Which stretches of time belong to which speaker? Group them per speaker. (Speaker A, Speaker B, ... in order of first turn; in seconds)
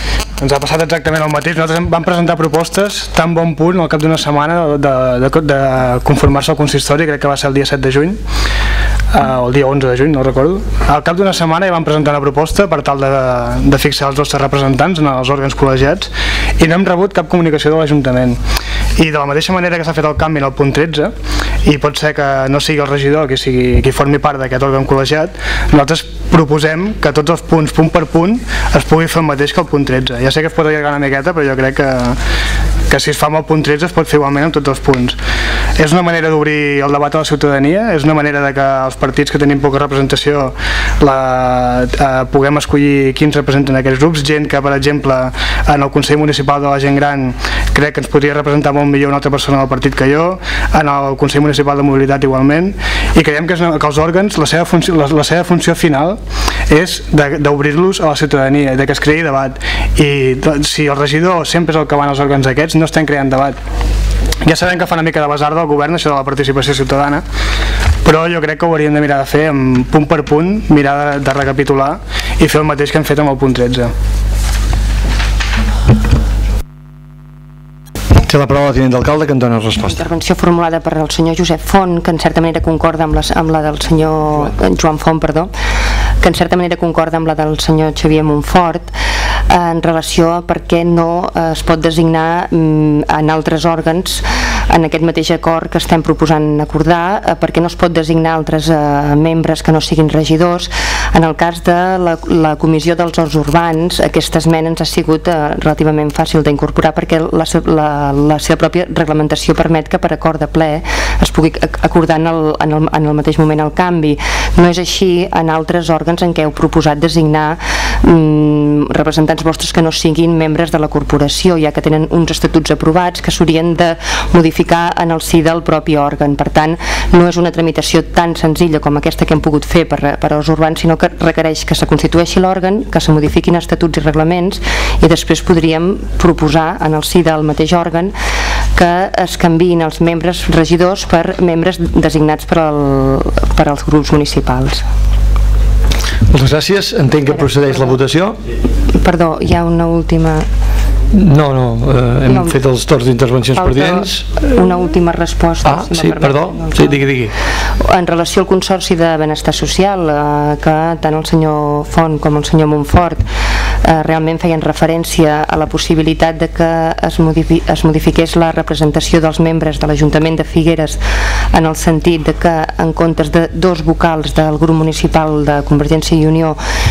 Speaker A: 0.4-8.2, 9.1-18.4, 19.0-21.1, 21.6-32.2, 32.9-35.2, 35.8-63.6, 64.5-67.2, 68.0-73.9
Speaker B: 78.2-80.0, 146.3-148.4, 151.1-154.2, 155.7-157.3
Speaker C: 79.8-85.5, 86.2-88.9, 89.5-138.1, 138.7-144.9, 148.9-150.5, 152.3-152.6, 153.5-157.0, 157.6-163.2, 163.8-171.0, 171.5-176.6